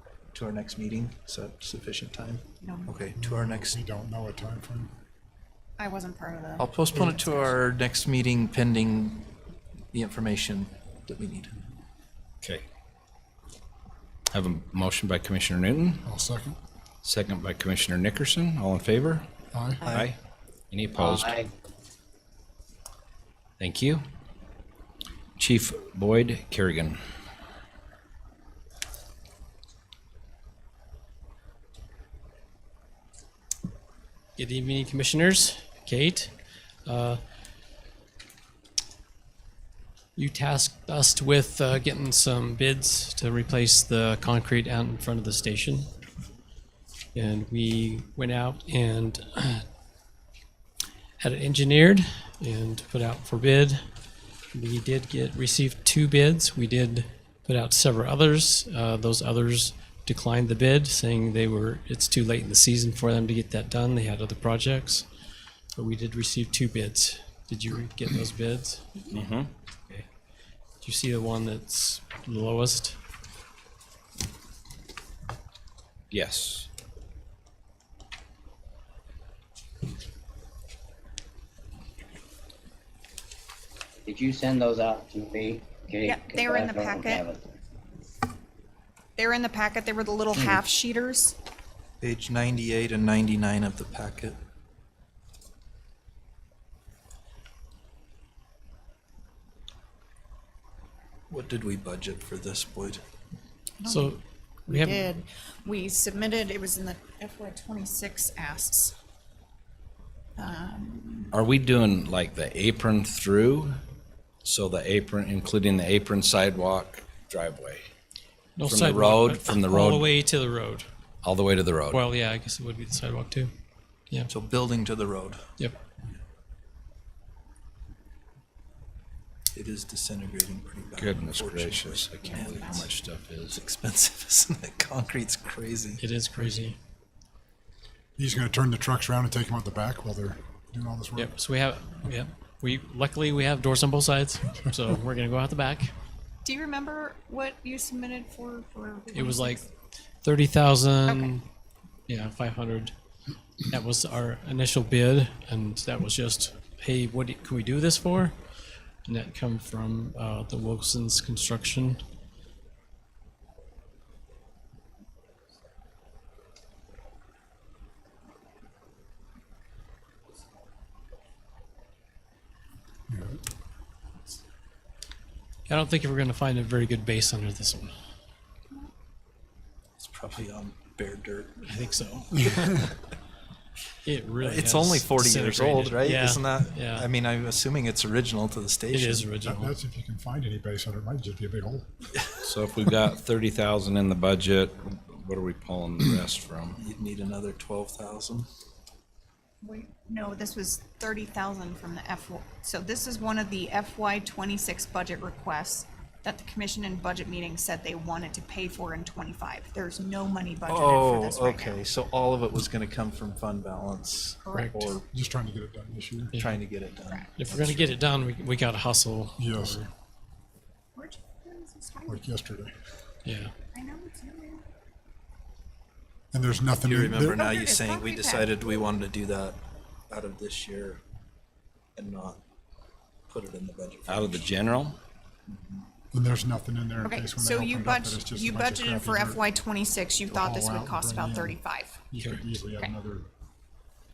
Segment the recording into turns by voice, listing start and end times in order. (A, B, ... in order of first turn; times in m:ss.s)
0:00.3-0:03.8 A
0:02.6-0:02.9 B
0:03.2-0:04.9 C
0:05.8-0:07.5 B
0:06.6-0:09.3 A
0:09.9-0:11.5 A
0:14.3-0:16.0 D
0:16.0-0:16.6 C
0:17.0-0:19.2 D
0:19.5-0:19.9 C
0:19.8-0:20.1 A
0:19.9-0:20.2 D
0:20.7-0:21.4 D
0:21.0-0:21.5 E
0:23.6-0:24.0 D
0:25.4-0:27.0 D
0:34.4-0:37.2 F
0:40.2-0:45.9 F
0:47.1-0:49.7 F
0:51.2-0:53.8 F
0:54.5-1:05.1 F
1:05.7-1:09.1 F
1:09.1-1:09.5 D
1:10.8-1:13.0 F
1:16.1-1:16.7 D
1:24.1-1:27.6 E
1:26.0-1:27.3 B
1:29.2-1:31.4 B
1:30.3-1:30.6 E
1:32.0-1:34.4 A
1:41.3-1:43.0 A
1:43.8-1:44.1 B
1:43.8-1:45.1 F
1:44.7-1:49.0 B
1:50.4-1:51.3 B
1:51.3-1:53.8 D
1:54.4-1:57.8 D
1:58.6-2:00.9 F
1:58.7-2:00.1 D
2:01.2-2:02.0 D
2:01.9-2:03.5 F
2:04.3-2:05.4 A
2:09.5-2:12.9 A
2:11.0-2:13.6 D
2:12.2-2:12.9 B
2:13.5-2:16.0 A
2:16.0-2:16.8 F
2:18.2-2:21.3 C
2:21.2-2:25.9 F
2:26.4-2:29.7 B
2:29.1-2:29.6 F
2:30.2-2:31.4 F
2:31.1-2:31.3 B
2:32.1-2:32.9 F
2:33.7-2:38.4 F
2:39.0-2:42.0 F
2:53.1-2:53.4 C
2:55.7-2:57.9 F
3:00.0-3:01.6 A
3:01.6-3:02.8 F
3:04.0-3:07.1 F
3:04.4-3:09.3 A
3:08.9-3:09.7 F
3:09.4-3:11.9 C
3:12.4-3:16.8 D
3:16.8-3:18.5 A
3:19.6-3:31.8 B
3:30.7-3:35.0 A
3:34.4-3:35.0 B
3:35.1-3:36.3 C
3:36.4-3:38.0 A
3:37.1-3:37.5 B
3:37.4-3:39.9 F
3:39.4-3:39.8 C
3:41.0-3:42.2 B
3:42.1-3:42.7 C
3:43.2-3:43.5 F
3:43.7-3:44.7 B
3:46.3-3:47.4 C
3:46.8-3:49.6 A
3:47.3-3:48.7 B
3:50.1-3:51.0 A
3:52.0-3:52.4 A
3:53.3-3:54.5 A
3:54.1-3:55.0 D
3:55.5-3:55.8 A
3:56.1-3:59.4 C
3:57.0-4:02.0 B
4:00.3-4:01.6 C
4:02.1-4:03.3 C